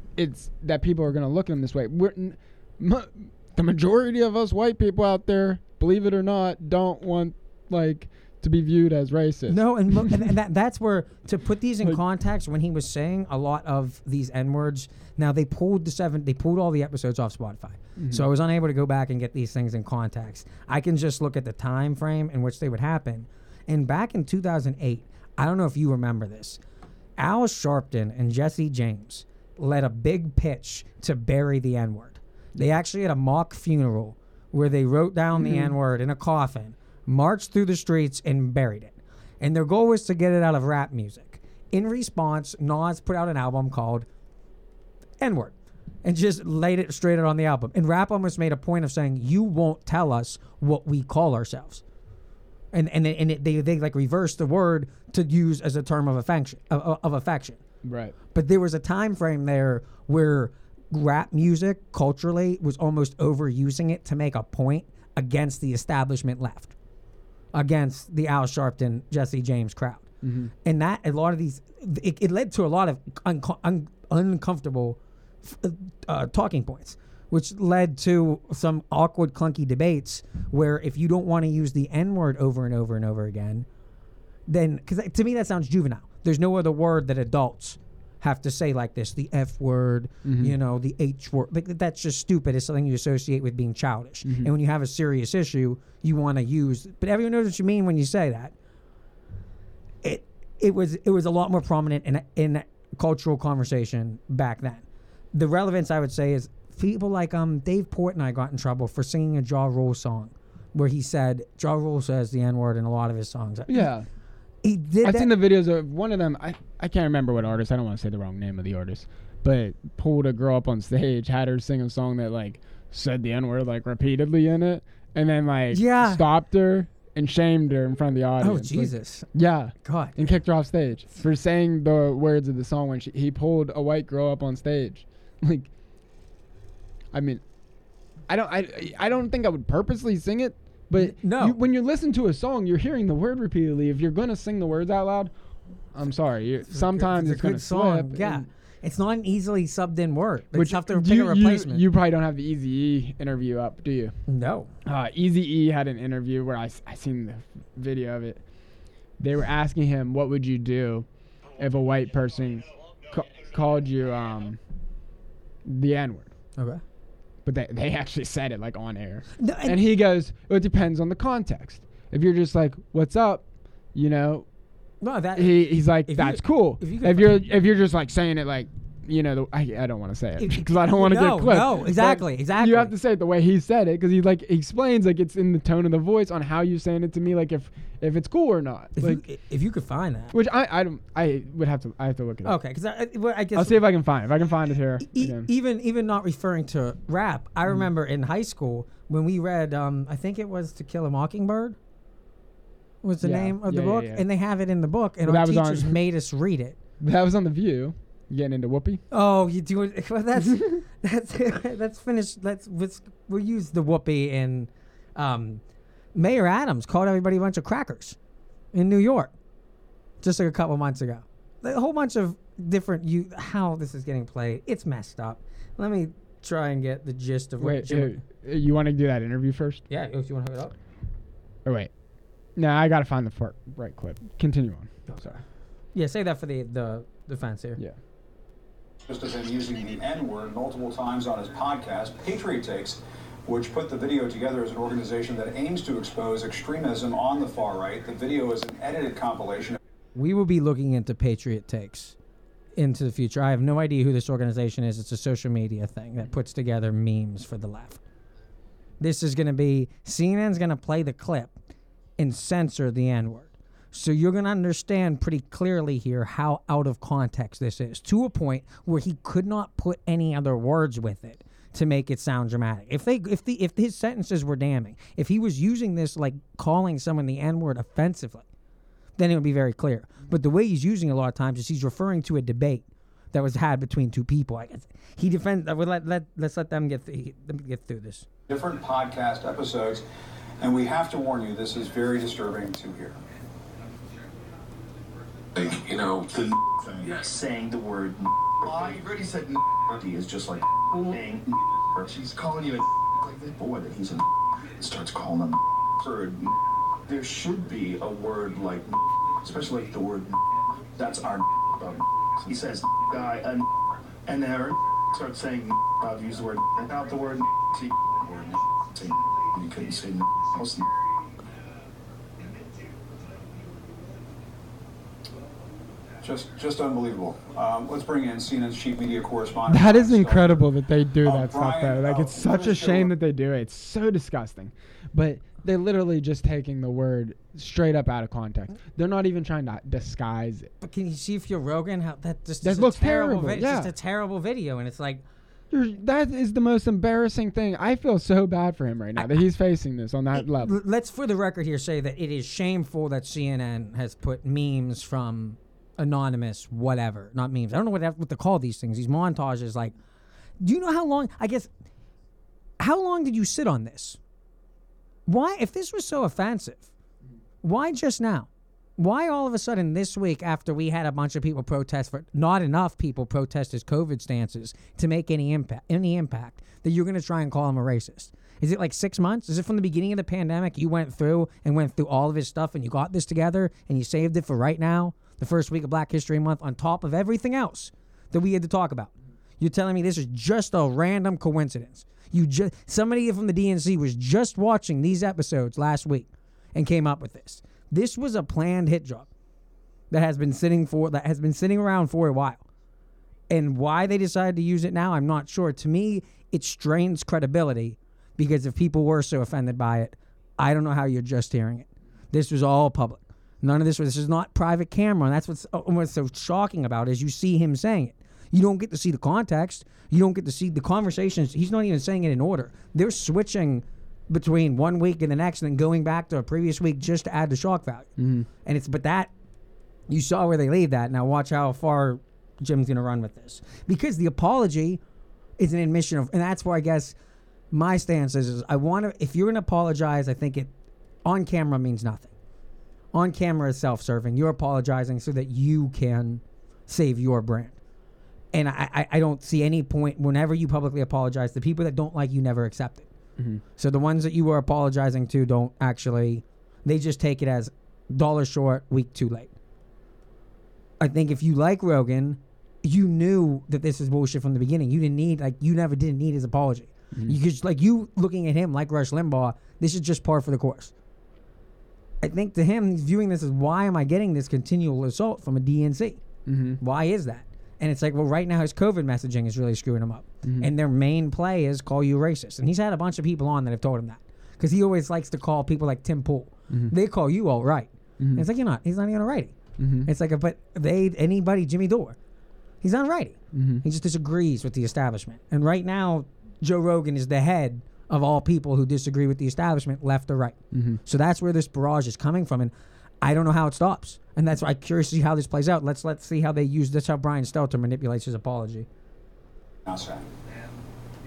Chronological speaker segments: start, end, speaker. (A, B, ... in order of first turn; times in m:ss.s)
0:00.2-0:10.3 A
0:09.5-0:26.6 B
0:18.0-0:18.3 A
0:27.2-0:44.1 B
0:35.4-0:35.8 A
0:45.2-0:51.8 B
0:52.7-0:57.6 B
0:57.8-0:58.2 A
0:58.3-1:06.7 B
1:07.5-1:10.1 B
1:10.2-1:10.5 A
1:10.6-1:23.7 B
1:24.5-1:38.5 B
1:30.2-1:30.6 A
1:34.2-1:34.5 A
1:40.0-1:53.9 B
1:53.7-1:54.1 A
1:54.6-1:55.3 B
1:55.0-2:15.7 A
2:05.7-2:06.2 B
2:08.4-2:09.3 B
2:09.8-2:10.2 B
2:17.1-2:17.4 A
2:18.3-2:25.3 A
2:21.0-2:21.6 B
2:25.9-2:28.5 A
2:26.7-2:31.9 B
2:30.5-2:34.1 A
2:34.3-2:34.7 B
2:34.8-2:38.4 A
2:39.2-2:41.1 A
2:41.6-2:44.6 A
2:45.7-2:46.3 A
2:46.6-2:46.8 B
2:47.4-2:54.5 A
2:49.4-2:49.8 B
2:55.0-2:57.5 B
2:55.4-3:09.2 A
3:00.4-3:02.9 B
3:09.0-3:10.3 B
3:10.3-3:12.6 A
3:12.4-3:13.8 B
3:13.6-3:15.5 A
3:15.0-3:21.8 B
3:23.0-3:26.8 B
3:23.2-3:24.2 A
3:25.2-3:26.0 A
3:27.0-3:29.0 A
3:29.1-3:35.6 B
3:30.4-3:30.8 A
3:36.2-3:38.2 B
3:38.7-3:39.3 B
3:40.2-3:48.2 B
3:47.6-3:49.8 A
3:49.9-3:50.8 B
3:51.6-3:51.9 A
3:52.6-3:55.4 A
3:55.9-3:57.8 B
3:59.1-4:09.8 C
4:10.2-4:12.2 B
4:12.8-4:18.0 B
4:19.0-4:21.5 B
4:22.2-4:38.5 B
4:39.2-4:48.3 B
4:48.5-4:50.0 C
4:50.6-4:53.2 C
4:55.6-5:04.2 D
5:04.8-5:06.5 D
5:07.1-5:10.4 D
5:11.0-5:13.6 D
5:14.3-5:20.8 D
5:26.2-5:30.7 C
5:29.7-5:40.7 A
5:31.2-5:33.1 C
5:40.8-5:45.2 B
5:42.6-5:43.9 A
5:45.7-5:50.8 A
5:50.4-5:59.9 B
6:00.6-6:01.7 B
6:02.8-6:04.2 B
6:05.3-6:06.9 B
6:07.6-6:39.3 B
6:40.1-6:42.6 B
6:43.5-7:08.1 B
7:08.2-7:08.5 A
7:08.6-7:09.3 B
7:10.1-7:15.0 B
7:15.6-7:17.2 B
7:17.7-7:20.7 B
7:21.2-7:22.3 B
7:23.1-7:27.8 B
7:28.5-7:33.1 B
7:33.8-7:39.5 B
7:41.0-7:50.9 B
7:52.2-7:56.2 B
7:56.5-7:56.8 A
7:56.8-8:12.2 B
8:00.4-8:00.7 A
8:08.2-8:08.4 A
8:09.8-8:10.1 A
8:12.8-8:28.9 B
8:13.5-8:13.8 A
8:20.7-8:21.0 A
8:29.9-8:30.2 C